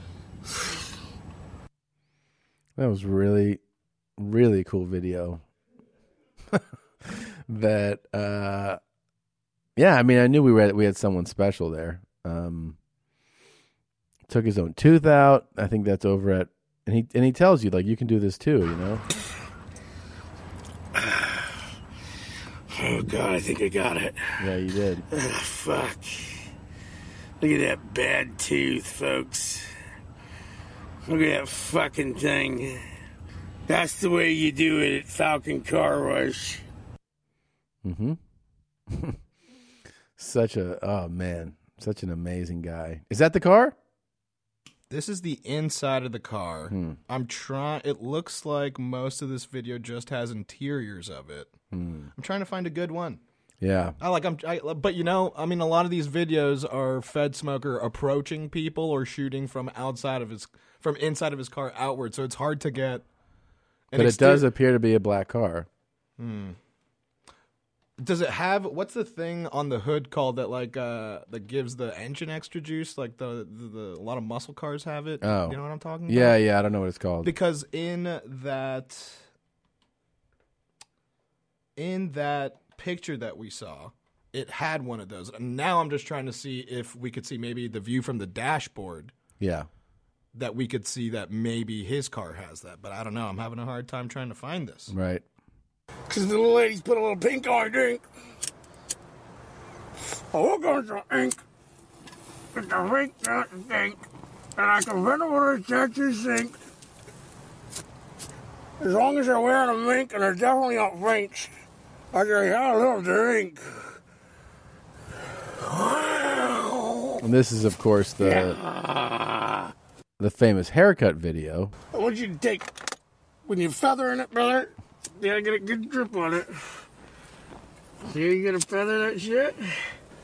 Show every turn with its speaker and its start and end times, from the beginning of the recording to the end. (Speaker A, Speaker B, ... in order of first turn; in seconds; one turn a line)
Speaker A: 2.8-3.6
Speaker A: 4.2-5.4
Speaker A: 6.5-8.8
Speaker A: 9.8-12.8
Speaker A: 14.3-19.0
Speaker B: 20.9-21.5
Speaker B: 22.7-24.3
Speaker A: 24.4-25.0
Speaker B: 25.1-26.4
Speaker B: 27.4-29.6
Speaker B: 31.1-32.8
Speaker B: 33.7-36.6
Speaker A: 37.8-38.2
Speaker A: 38.9-39.2
Speaker A: 40.2-43.8
Speaker C: 44.9-51.5
Speaker A: 46.7-47.0
Speaker A: 51.7-52.1
Speaker C: 52.1-53.2
Speaker A: 53.6-54.0
Speaker C: 54.0-63.0
Speaker C: 63.9-64.4
Speaker A: 63.9-65.7
Speaker C: 66.2-66.6
Speaker C: 68.0-76.4
Speaker A: 75.2-77.3
Speaker C: 77.2-79.2
Speaker C: 81.8-89.1
Speaker A: 89.4-89.7
Speaker C: 90.3-94.9
Speaker A: 94.9-95.2
Speaker B: 96.1-98.0
Speaker B: 100.3-101.4
Speaker B: 102.5-104.0
Speaker B: 104.6-106.5
Speaker B: 108.8-111.5
Speaker B: 112.1-113.6
Speaker B: 115.6-117.2
Speaker A: 117.2-118.6
Speaker B: 118.2-119.7
Speaker A: 120.2-121.7
Speaker B: 121.9-122.7
Speaker B: 123.5-126.5
Speaker B: 128.1-129.7